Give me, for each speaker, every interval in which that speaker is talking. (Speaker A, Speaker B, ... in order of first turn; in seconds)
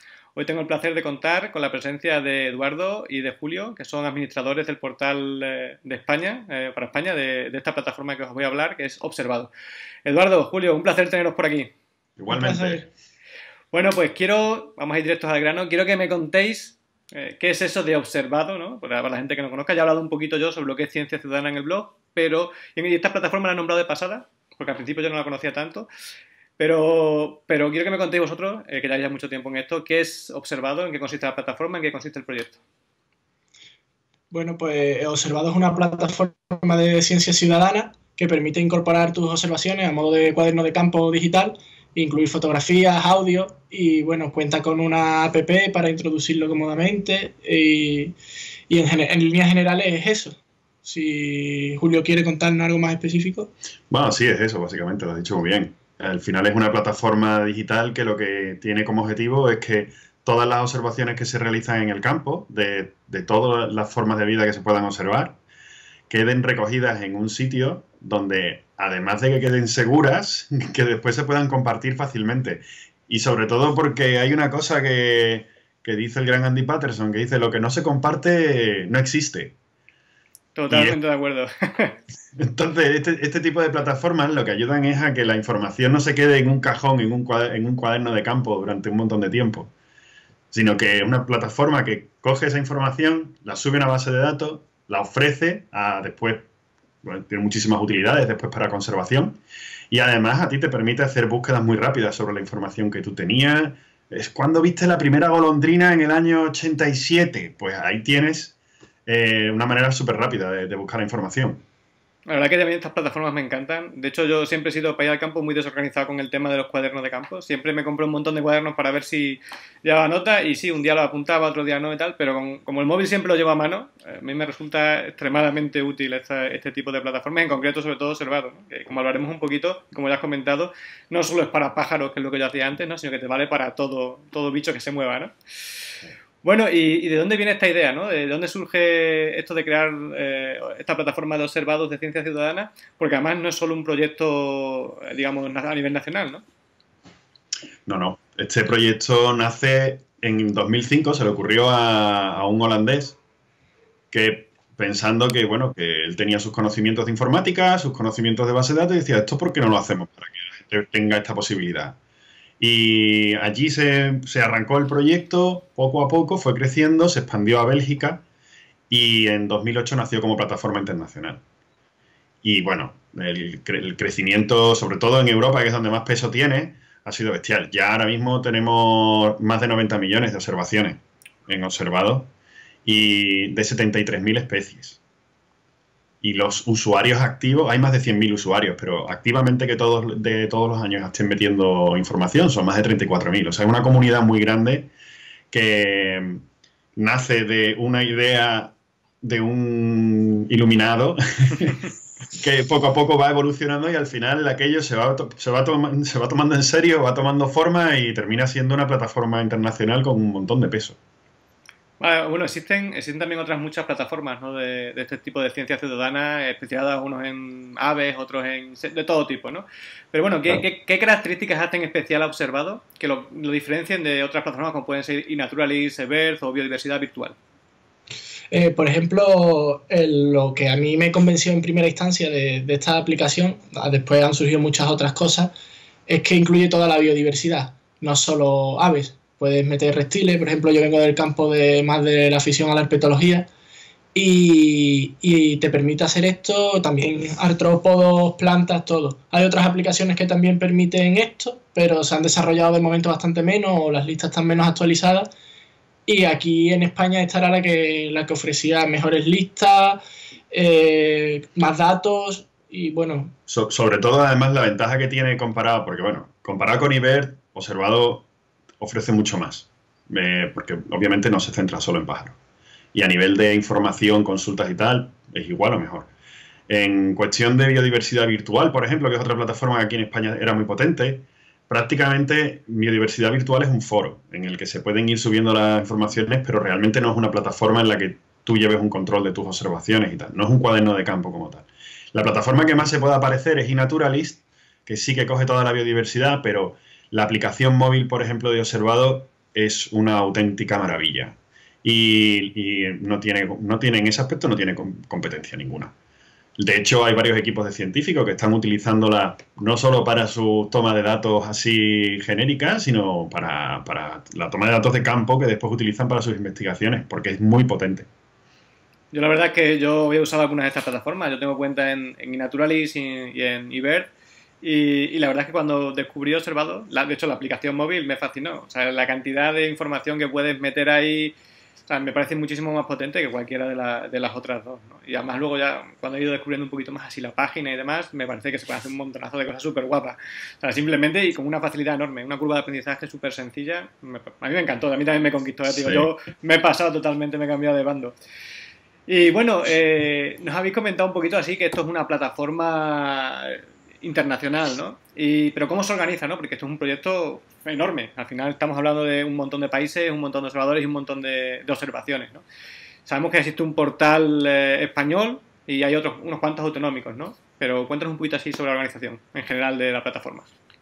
Speaker A: 0.3-9.5, 10.0-11.7, 13.7-25.9, 26.6-32.6, 80.5-82.0, 112.3-135.3, 136.4-146.4, 212.0-227.3, 319.1-324.1, 324.6-331.3, 331.9-348.1, 349.1-362.4, 363.1-370.5
Speaker B: 12.2-12.9, 53.9-65.4, 66.1-79.5, 80.7-81.0, 82.4-89.7, 90.5-96.5, 97.0-99.4, 99.9-108.5, 109.0-111.6, 147.8-153.2, 154.1-162.0, 162.6-168.2, 168.9-171.4, 172.4-182.3, 182.8-185.0, 186.2-194.9, 195.5-196.4, 196.9-201.8, 202.4-211.0, 263.5-268.3, 268.8-272.4, 272.9-276.1, 276.7-305.9, 306.6-318.1, 345.7-346.1
Speaker C: 12.3-12.9, 34.3-48.1, 48.7-53.5, 228.5-235.5, 236.1-243.5, 244.1-255.3, 256.1-263.3